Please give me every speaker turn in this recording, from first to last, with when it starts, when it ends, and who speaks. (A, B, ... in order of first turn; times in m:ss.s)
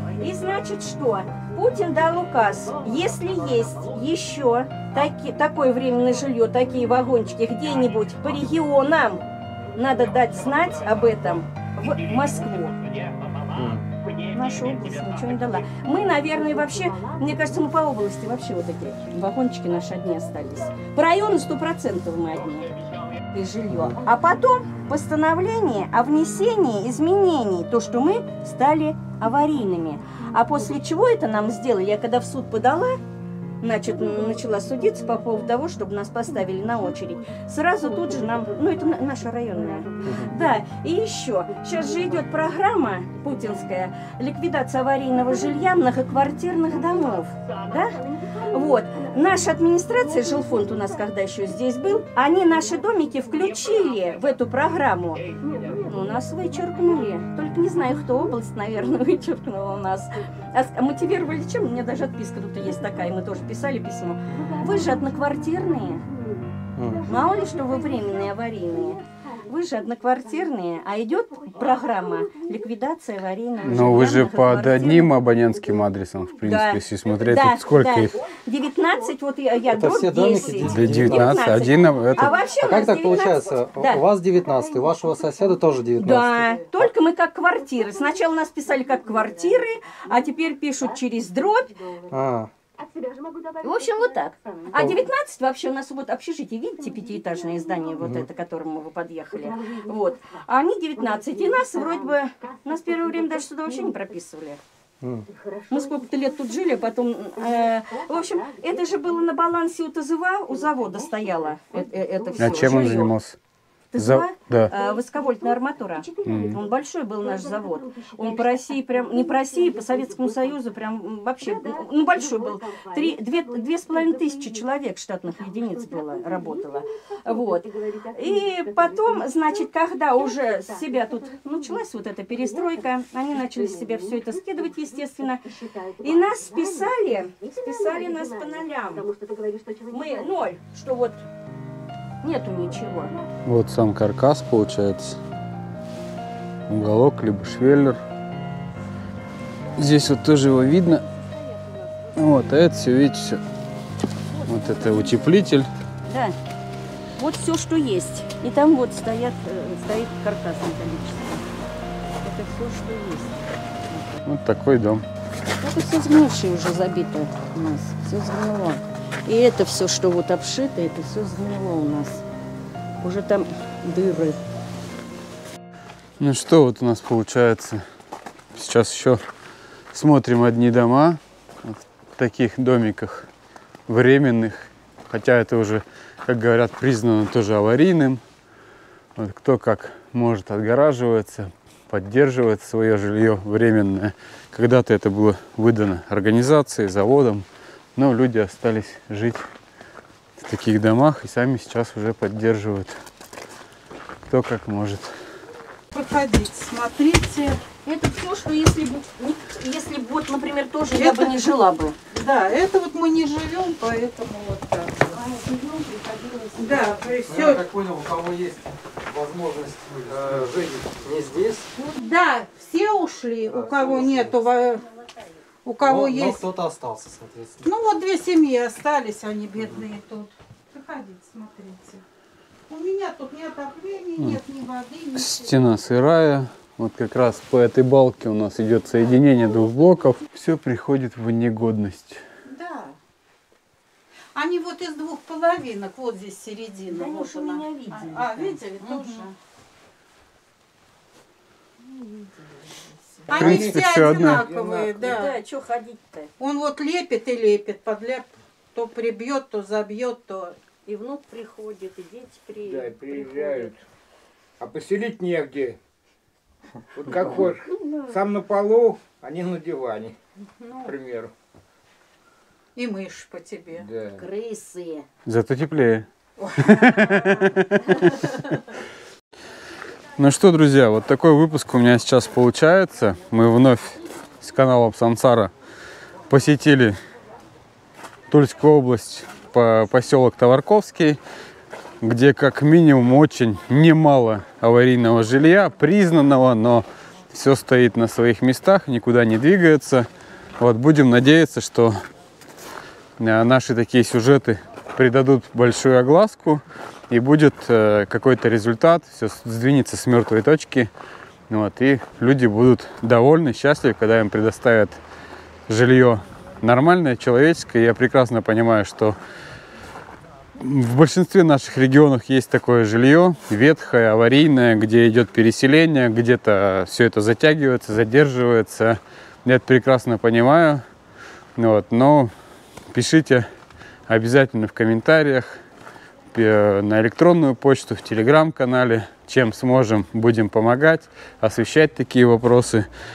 0:00.2-0:09.2 A
0:09.7-0:12.7 A
0:13.5-0:13.8 B
0:14.3-0:22.7 A
0:23.3-0:33.0 A
0:33.6-1:06.0 A
0:40.0-0:40.3 B
1:06.7-1:07.2 B
1:07.0-1:15.1 A
1:13.6-1:18.2 C
1:16.4-1:24.0 A
1:19.7-1:21.4 B
1:20.7-1:22.3 C
1:22.3-1:26.4 B
1:26.0-1:31.8 A
1:32.1-1:32.5 B
1:33.6-1:44.6 A
1:34.7-1:35.0 B
1:38.0-1:38.3 B
1:45.0-1:45.3 B
1:45.7-1:53.1 A
1:52.4-1:53.4 C
1:53.9-2:15.5 A
1:54.0-1:54.7 C
1:56.2-1:56.6 C
2:16.0-2:19.1 A
2:19.7-2:21.2 A
2:22.2-2:23.1 A
2:23.4-2:25.2 C
2:26.7-2:28.0 C
2:29.8-2:31.0 C
2:32.2-2:33.4 C
2:34.4-2:35.0 A
2:34.4-2:35.7 C
2:36.1-2:36.4 A
2:37.2-2:41.4 A
2:42.2-2:44.2 A
2:44.2-2:45.0 C
2:45.6-2:52.2 A
2:53.0-2:54.4 A
2:56.2-2:57.8 C
2:58.5-2:59.2 C
2:59.9-3:03.3 C
3:03.9-3:08.2 C
3:09.2-3:19.4 C
3:20.4-3:22.9 C
3:24.3-3:25.1 C
3:25.9-3:27.6 D
3:27.8-3:32.0 A
3:30.8-3:31.6 D
3:32.1-3:35.2 D
3:35.1-3:37.0 A
3:36.5-3:37.6 D
3:37.2-3:41.7 B
3:41.8-3:44.9 D
3:43.4-3:44.4 B
3:45.6-3:46.4 D
3:45.8-3:47.6 B
3:47.6-3:52.0 D
3:49.6-3:49.9 B
3:52.7-3:55.6 D
3:55.1-4:02.2 C
4:02.4-4:03.0 D
4:04.3-4:09.3 D
4:06.9-4:09.2 A
4:13.3-4:15.4 D
4:13.3-4:14.4 C
4:13.6-4:14.9 E
4:15.0-4:16.3 A
4:16.4-4:20.6 D
4:20.8-4:23.8 A
4:22.7-4:23.7 E
4:24.6-4:25.8 E
4:27.0-4:30.1 E
4:27.1-4:28.2 A
4:30.8-4:31.3 E
4:32.8-4:33.9 D
4:33.8-4:34.2 E
4:34.0-4:35.0 A
4:35.2-4:38.3 C
4:40.2-4:45.5 C
4:46.3-4:47.0 C
4:48.3-4:51.2 C
4:52.0-5:02.0 C
5:03.2-5:10.9 C
5:11.5-5:15.0 C
5:15.7-5:19.2 C
5:20.6-5:30.8 C
5:31.6-5:32.3 C
5:32.9-5:33.5 C
5:34.1-5:35.6 C
5:36.3-5:42.9 C